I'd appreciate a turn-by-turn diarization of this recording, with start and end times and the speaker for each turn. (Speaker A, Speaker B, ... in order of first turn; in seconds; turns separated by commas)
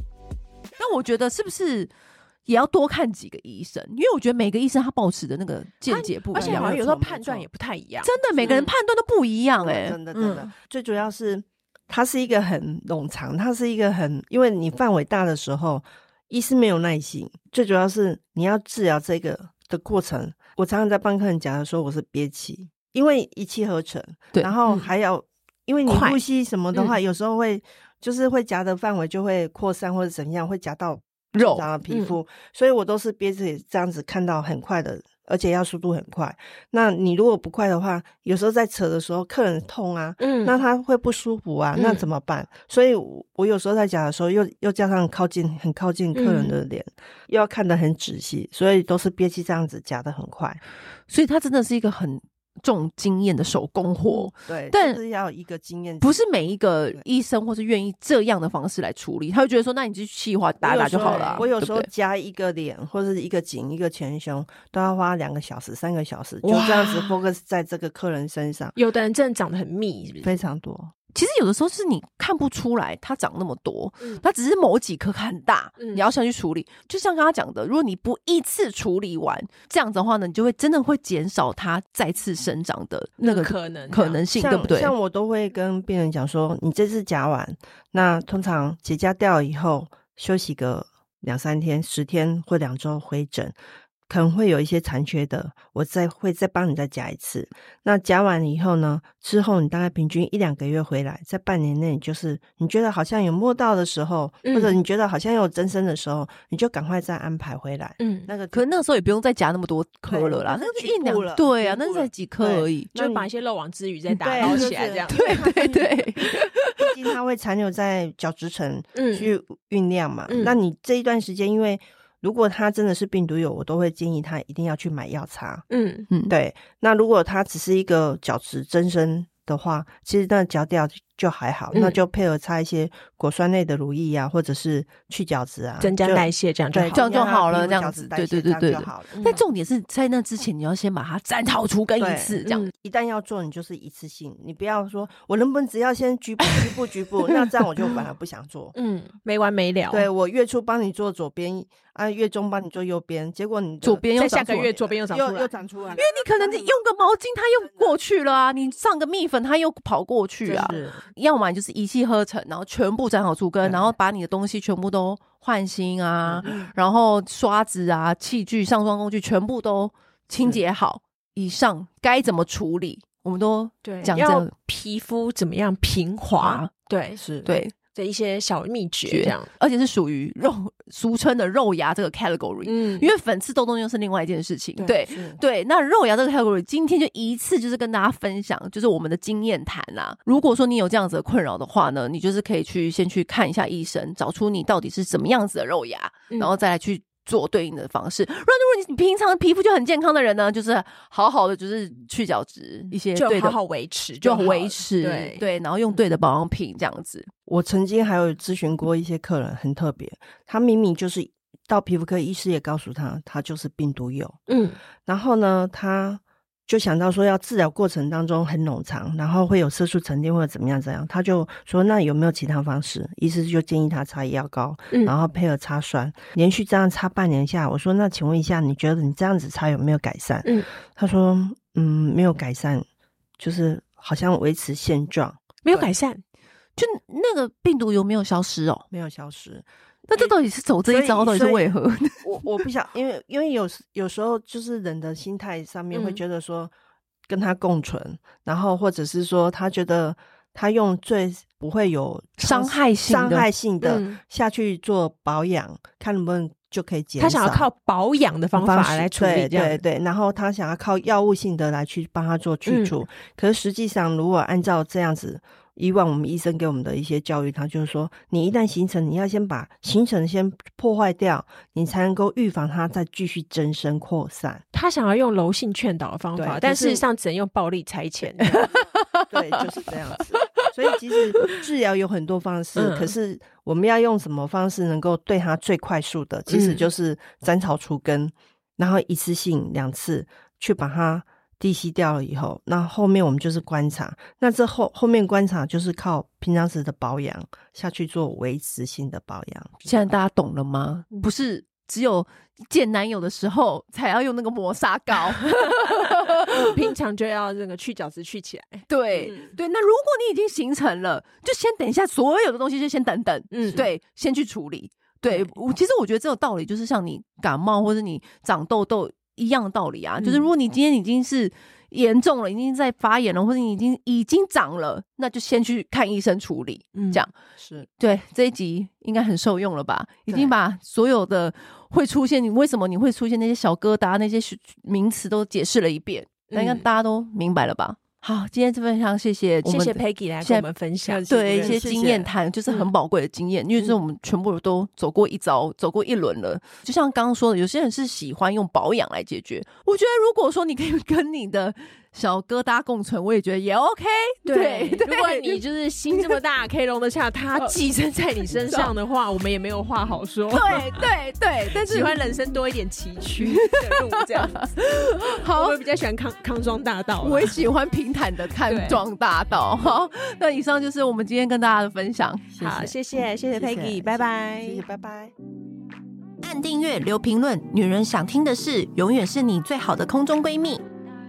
Speaker A: 0.8-1.9, Speaker A: 2.5-6.7, Speaker B: 5.9-8.7, Speaker C: 6.3-7.5, Speaker A: 8.0-10.4, Speaker C: 9.6-50.6, Speaker B: 10.1-10.5, Speaker B: 25.9-26.2, Speaker A: 31.3-31.6, Speaker B: 31.9-32.1, Speaker B: 40.2-40.6, Speaker B: 41.8-42.0, Speaker B: 46.1-46.5, Speaker A: 51.1-55.0, Speaker C: 54.4-56.2, Speaker A: 56.0-61.9, Speaker C: 60.6-68.7, Speaker B: 60.8-61.4, Speaker B: 66.4-67.2, Speaker B: 68.7-70.4, Speaker C: 70.2-70.9, Speaker A: 71.1-84.9, Speaker B: 75.8-76.1, Speaker B: 83.2-84.2, Speaker C: 84.3-93.5, Speaker C: 94.1-108.6, Speaker B: 104.4-104.8, Speaker B: 108.0-108.3, Speaker A: 108.5-112.9, Speaker C: 110.0-113.2, Speaker B: 112.9-115.4, Speaker C: 114.2-125.6, Speaker A: 114.4-117.0, Speaker B: 118.9-119.3, Speaker B: 120.3-120.5, Speaker B: 125.7-126.1, Speaker C: 126.3-139.2, Speaker B: 131.7-132.0, Speaker B: 135.8-137.1, Speaker A: 136.9-142.6, Speaker B: 139.1-139.4, Speaker C: 142.0-148.7, Speaker B: 142.4-142.7, Speaker B: 148.7-150.1, Speaker C: 149.9-156.8, Speaker A: 153.8-154.7, Speaker B: 154.2-155.5, Speaker A: 155.9-174.5, Speaker C: 157.7-158.0, Speaker B: 160.4-160.9, Speaker C: 160.6-161.1, Speaker C: 163.6-163.9, Speaker C: 166.2-166.7, Speaker B: 166.4-166.7, Speaker B: 173.8-177.2, Speaker A: 176.4-176.7, Speaker C: 177.2-177.5, Speaker A: 177.4-177.7, Speaker B: 177.9-179.5, Speaker A: 179.1-203.6, Speaker B: 182.6-183.1, Speaker B: 184.8-185.0, Speaker C: 185.1-185.4, Speaker B: 203.1-205.4, Speaker A: 204.2-207.3, Speaker C: 207.5-214.4, Speaker B: 214.5-214.8, Speaker C: 215.1-232.8, Speaker C: 233.4-235.9, Speaker B: 235.6-236.2, Speaker A: 236.8-238.9, Speaker C: 238.9-240.3, Speaker A: 240.1-242.6, Speaker C: 240.9-246.7, Speaker B: 245.9-246.2, Speaker C: 247.3-257.7, Speaker A: 252.4-253.5, Speaker B: 253.8-254.2, Speaker B: 257.2-259.8, Speaker C: 258.5-274.6, Speaker B: 262.6-262.9, Speaker B: 274.7-278.9, Speaker C: 276.4-277.0, Speaker C: 278.4-300.1, Speaker B: 282.7-283.1, Speaker B: 286.5-286.9, Speaker A: 299.9-306.5, Speaker B: 305.4-309.6, Speaker A: 308.9-327.3, Speaker B: 313.5-313.9, Speaker B: 315.3-315.5, Speaker B: 320.2-320.5, Speaker B: 326.9-327.3, Speaker C: 327.6-327.9, Speaker A: 327.9-340.7, Speaker B: 336.5-336.9, Speaker B: 339.6-342.0, Speaker C: 341.1-342.3, Speaker A: 341.3-355.6, Speaker B: 354.4-361.1, Speaker A: 358.5-358.9, Speaker A: 360.5-362.1, Speaker B: 361.7-367.6, Speaker A: 363.4-365.8, Speaker A: 367.2-372.5, Speaker B: 368.7-369.0, Speaker C: 372.5-375.3, Speaker B: 372.6-374.8, Speaker A: 376.4-380.8